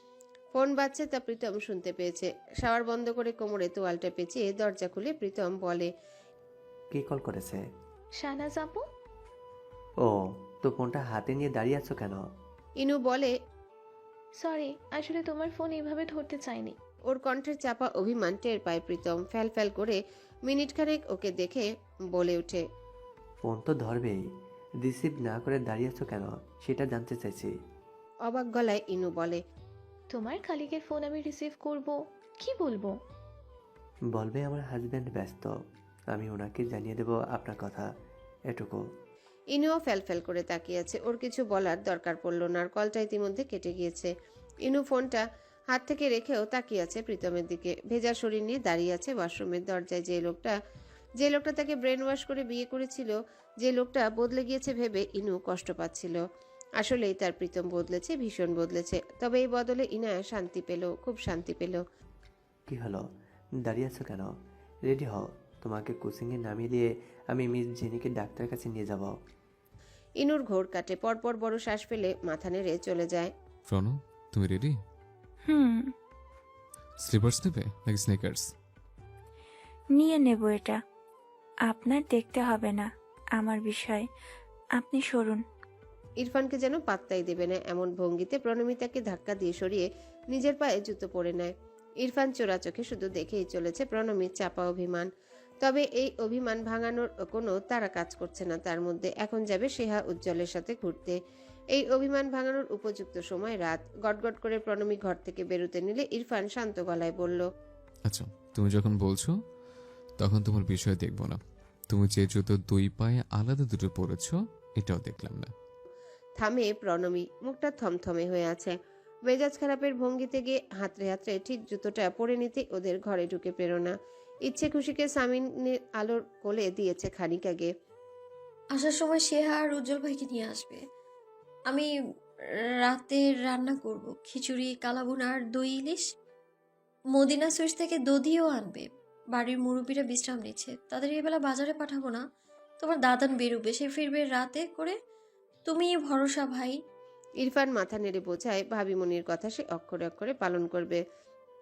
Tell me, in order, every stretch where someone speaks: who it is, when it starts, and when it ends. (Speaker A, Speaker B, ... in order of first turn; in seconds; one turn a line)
Speaker A: 0.5-5.9
Speaker B: 6.9-7.6
Speaker C: 8.2-8.8
Speaker B: 10.0-12.2
Speaker A: 12.8-13.3
Speaker C: 14.4-16.8
Speaker A: 17.1-22.6
Speaker B: 23.4-24.2
Speaker B: 24.8-27.5
Speaker A: 28.2-29.4
Speaker C: 30.1-32.9
Speaker B: 34.1-35.5
Speaker B: 36.1-37.9
Speaker B: 38.5-38.8
Speaker A: 39.5-44.1
Speaker A: 44.6-50.5
Speaker A: 51.2-56.2
Speaker A: 56.8-61.8
Speaker B: 62.7-63.0
Speaker B: 63.6-64.3
Speaker B: 64.8-69.2
Speaker A: 70.2-73.3
Speaker D: 73.7-74.8
Speaker E: 75.5-75.9
Speaker D: 77.0-78.5
Speaker E: 79.9-80.8
Speaker E: 81.7-84.1
Speaker E: 84.8-85.4
Speaker A: 86.2-91.5
Speaker A: 92.0-95.1
Speaker A: 95.6-101.2
Speaker A: 101.7-107.4
Speaker D: 108.0-109.5
Speaker D: 110.2-115.5
Speaker A: 116.4-118.7
Speaker A: 119.2-123.9
Speaker A: 124.5-127.7
Speaker F: 128.7-130.8
Speaker F: 131.7-131.9
Speaker F: 132.8-136.1
Speaker F: 137.1-142.2
Speaker F: 142.8-145.0
Speaker F: 145.7-146.8
Speaker A: 147.4-151.0